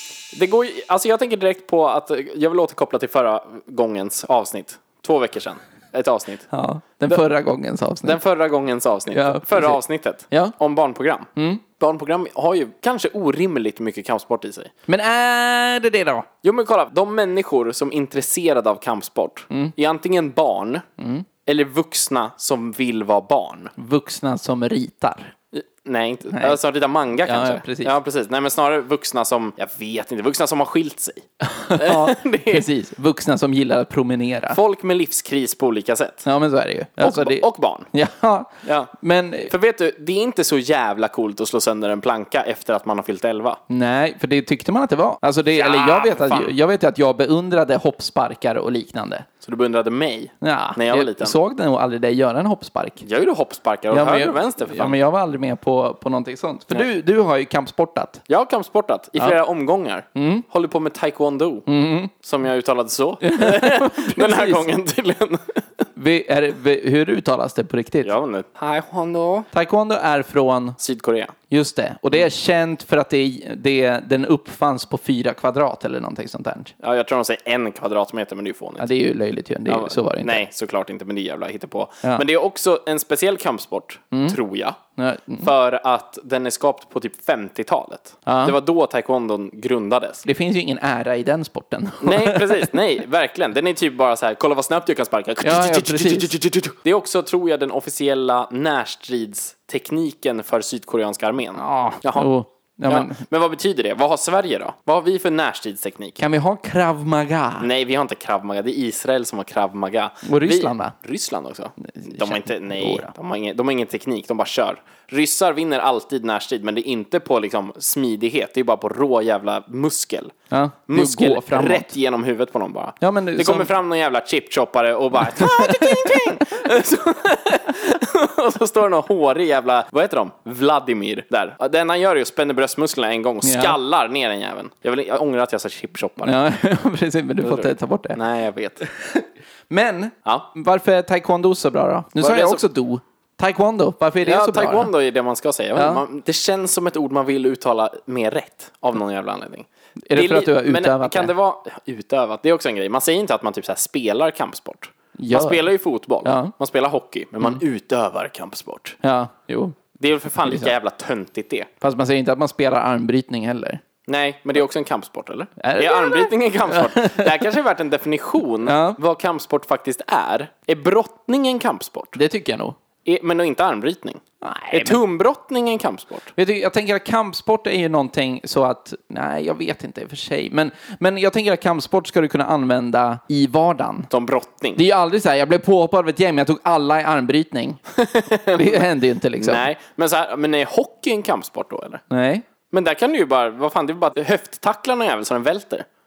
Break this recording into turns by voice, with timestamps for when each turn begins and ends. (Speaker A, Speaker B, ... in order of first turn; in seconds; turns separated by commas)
Speaker A: 0.3-6.5, Speaker B: 6.5-8.2, Speaker A: 8.1-14.7, Speaker B: 9.1-10.5, Speaker B: 11.4-11.6, Speaker B: 14.9-16.3, Speaker A: 16.4-20.9, Speaker B: 21.0-21.3, Speaker A: 21.5-23.7, Speaker B: 23.8-25.3, Speaker A: 25.5-32.7, Speaker B: 26.3-26.6, Speaker B: 27.2-27.9, Speaker B: 31.4-34.6, Speaker A: 34.5-36.3, Speaker B: 36.2-39.5, Speaker A: 37.0-37.9, Speaker A: 38.6-38.9, Speaker A: 39.5-43.6, Speaker B: 43.7-49.3, Speaker A: 45.5-46.5, Speaker A: 49.4-51.4, Speaker B: 50.4-53.0, Speaker A: 53.0-55.0, Speaker B: 53.9-58.2, Speaker A: 58.3-61.7, Speaker B: 60.1-60.5, Speaker B: 61.7-62.1, Speaker A: 62.2-65.6, Speaker B: 63.2-64.7, Speaker B: 66.0-68.1, Speaker A: 68.0-69.5, Speaker B: 69.5-70.8, Speaker A: 70.8-71.3, Speaker B: 71.5-76.7, Speaker A: 76.8-78.9, Speaker B: 78.8-80.4, Speaker A: 79.7-84.8, Speaker B: 84.1-84.4, Speaker B: 85.0-85.5, Speaker A: 85.4-90.2, Speaker B: 88.3-88.6, Speaker B: 90.2-92.7, Speaker A: 92.0-102.3, Speaker B: 95.4-96.3, Speaker B: 101.6-103.2, Speaker A: 102.9-106.2, Speaker B: 106.2-107.7, Speaker A: 107.6-120.3, Speaker B: 110.2-110.9, Speaker B: 111.8-113.1, Speaker B: 120.5-121.9, Speaker A: 120.9-136.4, Speaker B: 123.0-123.7, Speaker B: 125.4-126.3, Speaker B: 133.4-133.8, Speaker B: 136.2-138.2, Speaker A: 137.4-138.8, Speaker B: 138.8-144.9, Speaker A: 142.2-142.6, Speaker A: 144.2-159.0, Speaker B: 145.8-146.0, Speaker B: 150.1-151.3, Speaker B: 155.2-155.7, Speaker B: 156.2-156.5, Speaker B: 159.0-159.8, Speaker A: 160.0-161.7, Speaker B: 160.5-160.7, Speaker B: 161.8-163.8, Speaker A: 164.1-172.2, Speaker B: 165.6-167.5, Speaker B: 168.7-169.0, Speaker B: 172.2-172.8, Speaker A: 173.1-176.3, Speaker B: 174.4-175.0, Speaker B: 176.3-184.1, Speaker A: 184.1-184.8, Speaker B: 184.8-187.8, Speaker A: 187.9-192.0, Speaker B: 188.5-189.7, Speaker B: 192.1-192.4, Speaker A: 192.7-195.9